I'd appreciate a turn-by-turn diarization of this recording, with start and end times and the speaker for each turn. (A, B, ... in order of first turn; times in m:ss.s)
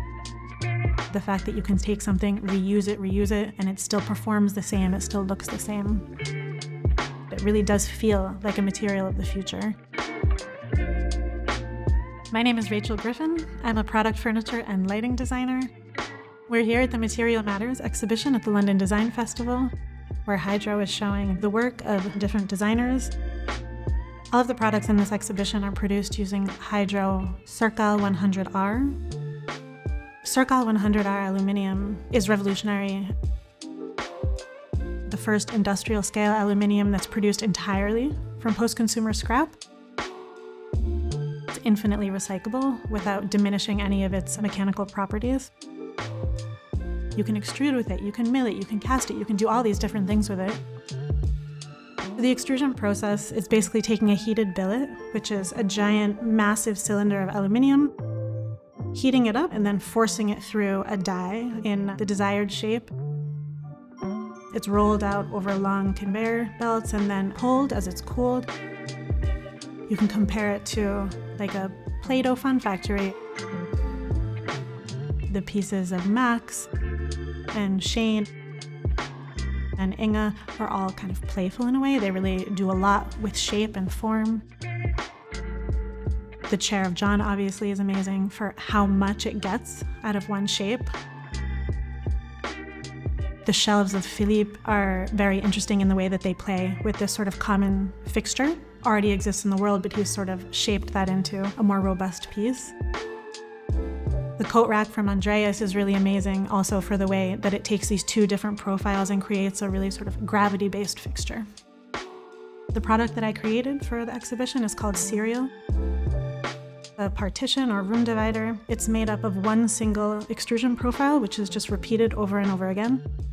0:01.1-0:06.1 A
0:07.3-0:09.8 A
0:12.3-0:15.7 A
0:16.5-0:19.7 A
0:20.2-0:23.1 A
0:24.3-0:29.0 A
0:30.2-0:33.1 A
0:35.1-0:39.6 A
0:41.5-0:45.5 A
0:47.1-0:50.6 A
0:52.2-0:57.9 A
0:58.9-1:02.9 A
1:04.5-1:08.5 A
1:09.9-1:13.1 A
1:15.3-1:16.7 A
1:17.5-1:18.3 A
1:19.8-1:24.4 A
1:26.5-1:30.9 A
1:33.4-1:42.7 A
1:44.4-1:51.5 A
1:52.7-1:55.5 A
1:57.0-2:03.0 A